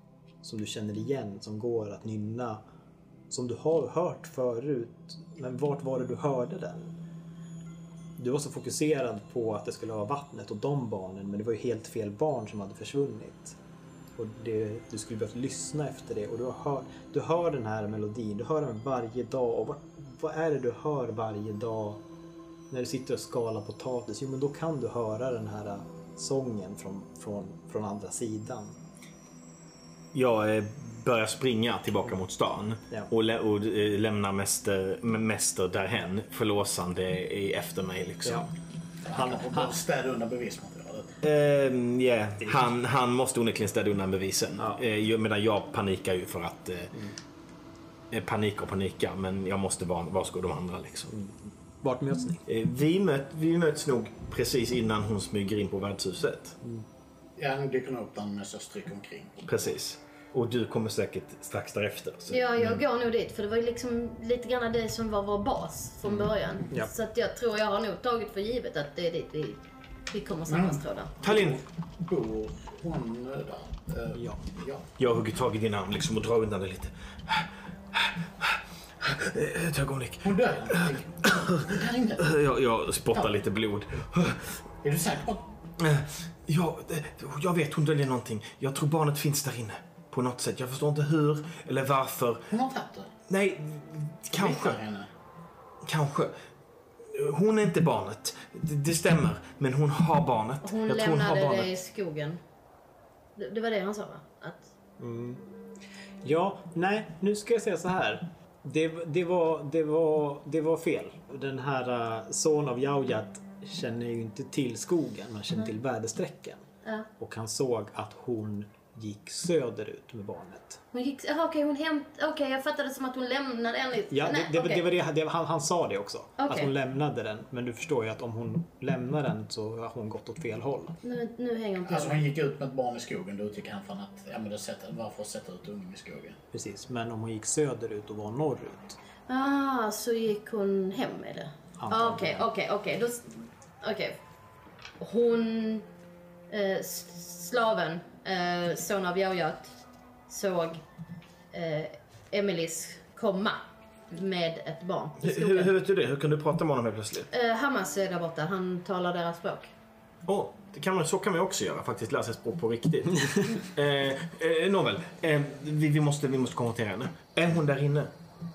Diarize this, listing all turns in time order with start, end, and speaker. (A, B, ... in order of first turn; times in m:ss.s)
0:00.4-0:02.6 A
0:03.3-0:06.9 A
0:08.2-0:13.6 A
0:14.2-0:22.0 A
0:22.7-0:28.8 A
0:30.1-0:38.5 B
0:39.0-0:41.1 C
0:39.1-0:39.7 A
0:41.2-0:46.9 B
0:48.1-0:51.1 B
0:51.1-0:52.4 A
0:52.5-0:56.6 B
0:57.4-0:59.5 C
0:59.4-1:02.8 B
1:02.3-1:11.1 D
1:10.5-1:14.8 C
1:11.2-1:11.6 B
1:14.1-1:14.4 A
1:15.0-1:24.6 B
1:20.2-1:22.3 C
1:24.8-1:25.4 C
1:25.8-1:32.5 B
1:32.5-1:33.1 C
1:33.3-1:34.8 B
1:34.3-1:35.1 C
1:35.8-1:36.4 B
1:37.0-1:41.7 B
1:40.6-1:42.4 D
1:43.4-1:44.7 D
1:45.0-1:45.5 A
1:46.2-1:56.6 A
1:57.2-2:00.8 A
2:00.9-2:04.8 D
2:04.1-2:10.9 A
2:06.4-2:06.7 D
2:11.0-2:12.2 D
2:11.8-2:16.4 C
2:16.5-2:19.0 A
2:19.3-2:24.2 D
2:21.8-2:22.5 A
2:25.0-2:25.9 D
2:26.5-2:29.7 D
2:30.3-2:30.8 D
2:31.5-2:35.7 D
2:35.2-2:37.3 B
2:37.3-2:39.7 D
2:40.3-2:48.1 B